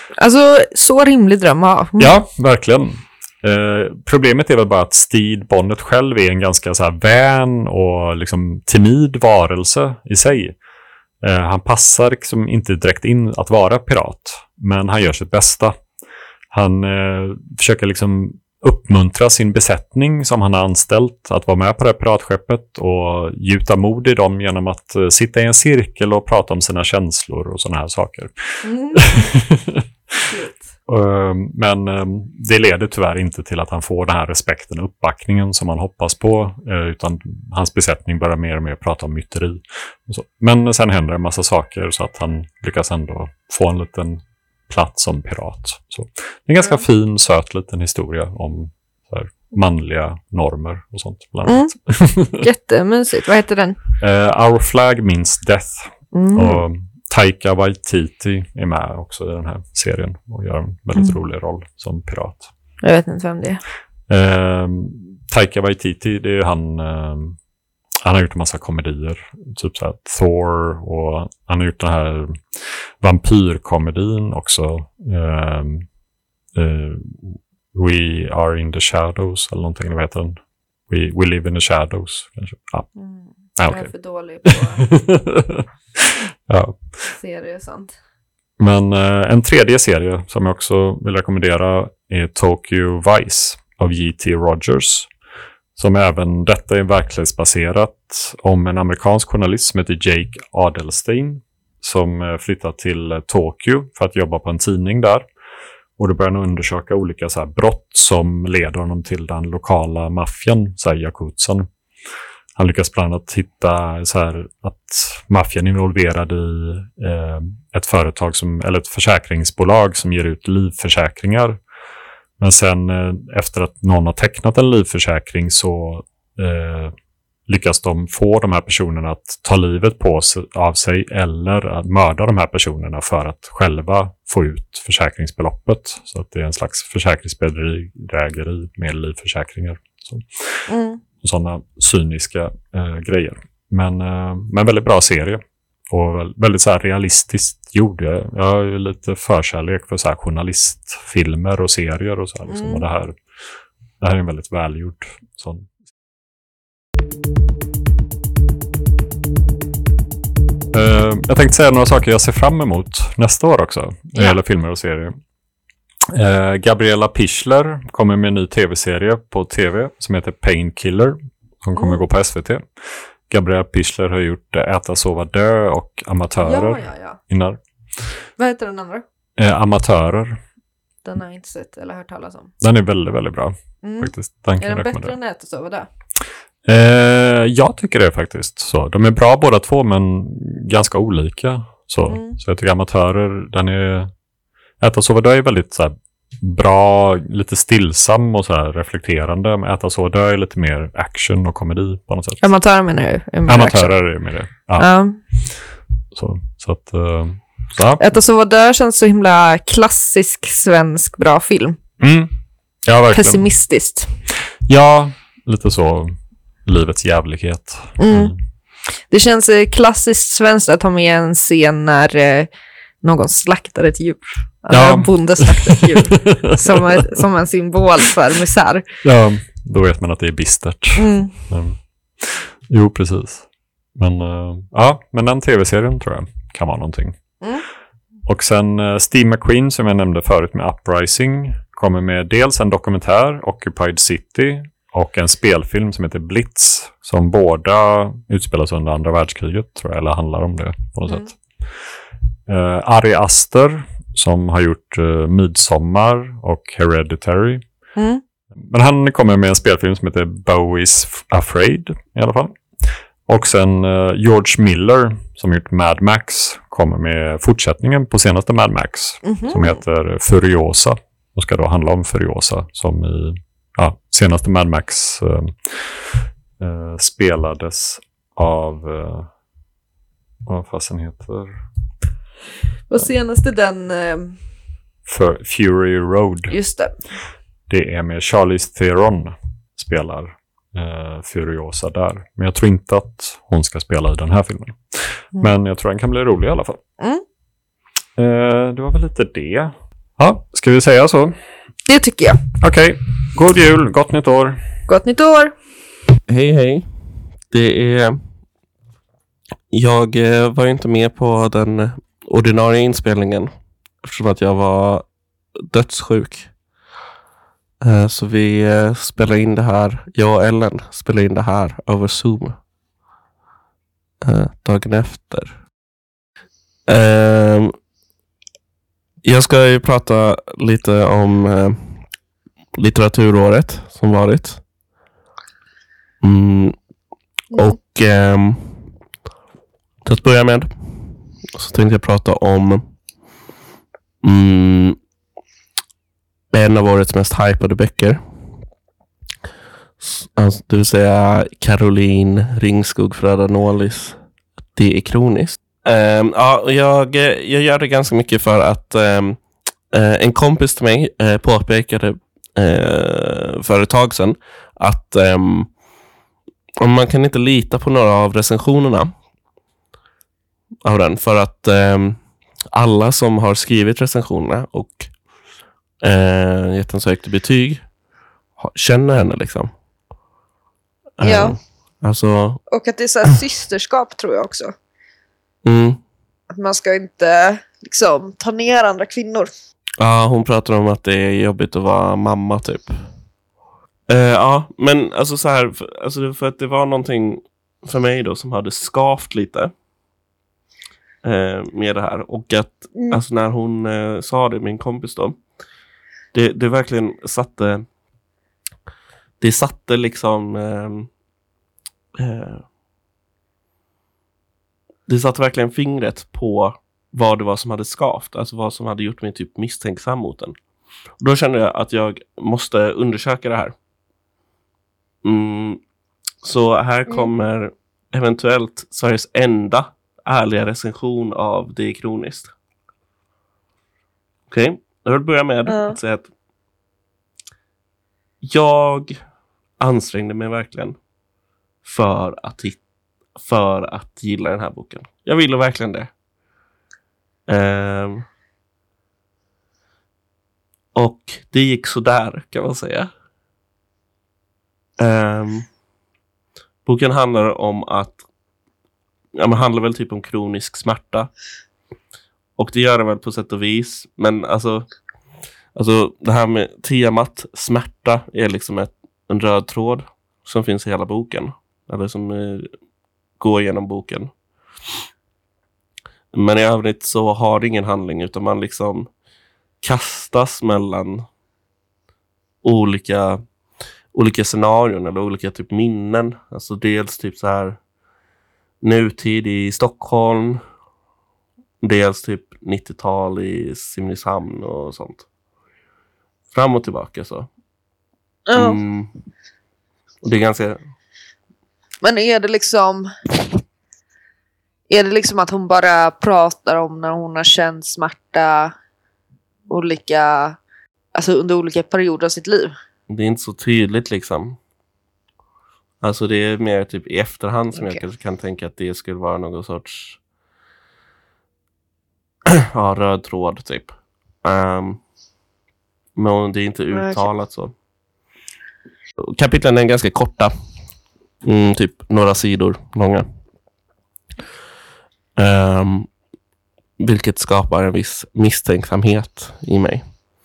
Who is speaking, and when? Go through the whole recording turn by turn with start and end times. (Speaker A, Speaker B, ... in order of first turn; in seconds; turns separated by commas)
Speaker A: 0.2-2.1, Speaker B: 2.0-10.6, Speaker B: 11.2-15.8, Speaker B: 16.5-30.1, Speaker A: 28.6-29.2, Speaker A: 30.3-30.6, Speaker B: 30.9-52.4, Speaker A: 51.4-51.7, Speaker A: 52.3-53.8, Speaker B: 54.0-62.5, Speaker A: 56.1-56.6, Speaker A: 62.8-63.6, Speaker B: 64.1-67.4, Speaker B: 68.0-75.8, Speaker B: 76.5-80.4, Speaker B: 80.9-82.9, Speaker A: 83.0-84.9, Speaker B: 83.6-83.9, Speaker B: 84.5-87.1, Speaker A: 87.1-87.9, Speaker B: 88.6-95.1, Speaker B: 95.8-105.3, Speaker B: 106.0-111.7, Speaker B: 112.5-121.6, Speaker B: 122.4-126.9, Speaker B: 127.5-140.7, Speaker A: 140.7-141.0, Speaker B: 141.2-153.2, Speaker A: 152.5-152.8, Speaker B: 154.0-155.7, Speaker B: 160.7-165.1, Speaker B: 166.1-172.7, Speaker A: 171.8-172.0, Speaker B: 173.3-177.6, Speaker A: 176.4-177.2, Speaker A: 178.4-179.0, Speaker B: 179.4-180.4, Speaker A: 181.0-182.5, Speaker B: 182.6-185.1, Speaker A: 183.8-185.9, Speaker B: 186.7-194.1, Speaker A: 192.1-192.4, Speaker B: 194.8-202.5, Speaker A: 202.4-204.0, Speaker B: 203.5-204.9, Speaker A: 204.8-205.2, Speaker B: 206.1-208.0, Speaker A: 208.0-211.8, Speaker B: 212.0-212.3, Speaker B: 212.8-213.4, Speaker A: 213.1-214.1, Speaker B: 214.7-218.4, Speaker A: 218.0-218.3, Speaker A: 219.1-222.5, Speaker A: 223.0-228.8, Speaker B: 224.7-227.0, Speaker B: 229.0-237.2, Speaker A: 230.9-231.4, Speaker B: 238.2-251.4, Speaker B: 252.5-257.6, Speaker A: 257.9-258.2, Speaker B: 258.6-279.3, Speaker A: 269.2-269.8, Speaker B: 280.4-281.6, Speaker A: 282.9-284.4, Speaker B: 285.1-286.5, Speaker A: 286.5-286.9, Speaker B: 287.7-296.8, Speaker B: 298.2-301.3, Speaker A: 301.9-302.4, Speaker B: 302.6-304.6, Speaker A: 304.9-305.5, Speaker C: 306.3-306.9, Speaker C: 307.5-308.2, Speaker C: 309.7-313.5, Speaker C: 314.0-315.0, Speaker C: 315.7-316.5, Speaker C: 317.8-322.6, Speaker C: 324.2-325.6, Speaker C: 326.9-327.7, Speaker C: 329.2-331.8, Speaker C: 332.8-334.6, Speaker C: 336.2-336.7, Speaker C: 337.5-338.7, Speaker C: 340.0-340.7, Speaker C: 341.5-342.8, Speaker C: 344.2-344.9, Speaker C: 346.5-348.2, Speaker C: 350.0-354.2, Speaker C: 354.8-359.4, Speaker C: 359.9-365.7, Speaker C: 366.8-369.1, Speaker C: 370.8-372.2, Speaker C: 372.7-375.1, Speaker C: 376.0-377.8, Speaker C: 378.6-379.7, Speaker C: 381.2-382.6, Speaker A: 381.2-381.6, Speaker A: 382.7-384.7, Speaker C: 385.6-386.0, Speaker A: 386.5-389.5, Speaker C: 390.0-393.0, Speaker C: 394.1-399.7, Speaker C: 401.2-405.4, Speaker A: 402.9-403.2, Speaker C: 406.3-407.9, Speaker C: 409.4-411.1, Speaker C: 412.2-412.6, Speaker C: 415.1-420.5, Speaker C: 421.2-423.7, Speaker C: 425.2-425.8, Speaker C: 426.4-432.5, Speaker C: 434.5-436.3, Speaker A: 435.6-436.0, Speaker C: 438.4-439.2, Speaker C: 439.8-441.0, Speaker C: 441.8-442.8, Speaker C: 443.4-446.1, Speaker C: 447.5-448.2, Speaker C: 450.9-453.1, Speaker C: 455.0-455.7, Speaker C: 456.9-458.2, Speaker C: 459.4-461.3, Speaker C: 462.6-464.9, Speaker C: 465.7-472.7, Speaker C: 473.4-474.3, Speaker C: 476.3-479.1, Speaker C: 479.8-481.2, Speaker C: 482.6-483.4, Speaker C: 484.1-487.8, Speaker C: 488.8-490.6, Speaker C: 491.8-495.2, Speaker C: 496.5-497.5, Speaker A: 498.5-498.8, Speaker C: 498.5-499.1, Speaker C: 500.2-500.8, Speaker A: 502.0-503.6, Speaker A: 504.9-508.7, Speaker A: 509.7-510.6, Speaker A: 511.1-512.7, Speaker C: 513.1-514.6, Speaker C: 516.0-520.2, Speaker C: 522.7-525.0, Speaker C: 526.1-527.7, Speaker A: 526.9-527.3, Speaker C: 529.3-530.5, Speaker C: 531.4-533.2, Speaker C: 535.4-536.1, Speaker C: 537.0-540.0